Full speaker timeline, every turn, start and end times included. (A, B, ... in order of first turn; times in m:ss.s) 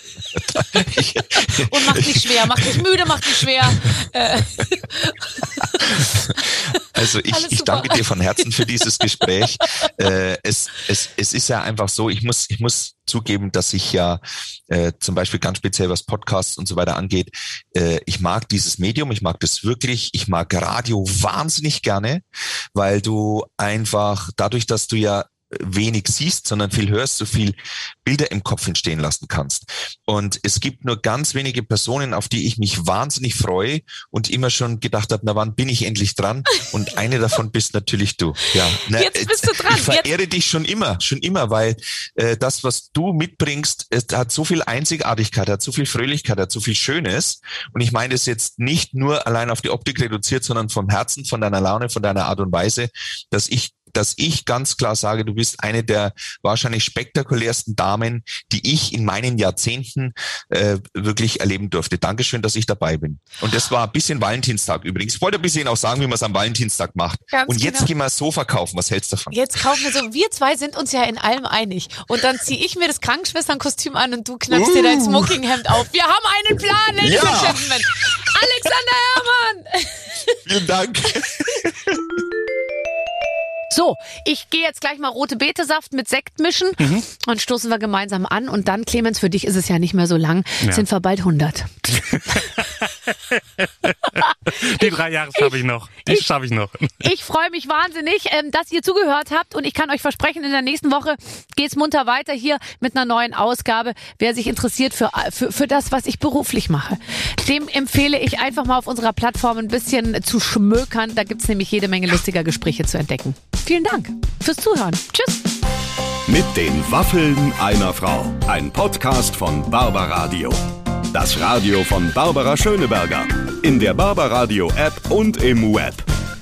0:00.4-0:02.8 A
0:00.6-0:09.9 B
0:05.9-0:06.3 A
0:06.9-1:09.4 A
0:38.9-0:40.1 B
1:07.3-1:07.9 B
1:09.3-1:20.4 B
1:14.5-1:15.4 A
1:17.0-1:17.7 A
1:20.5-1:22.0 A
1:23.7-1:32.6 B
1:32.1-1:33.1 C
1:33.8-1:37.0 C
1:34.0-1:35.5 B
1:37.0-1:55.5 B
1:56.3-2:06.1 D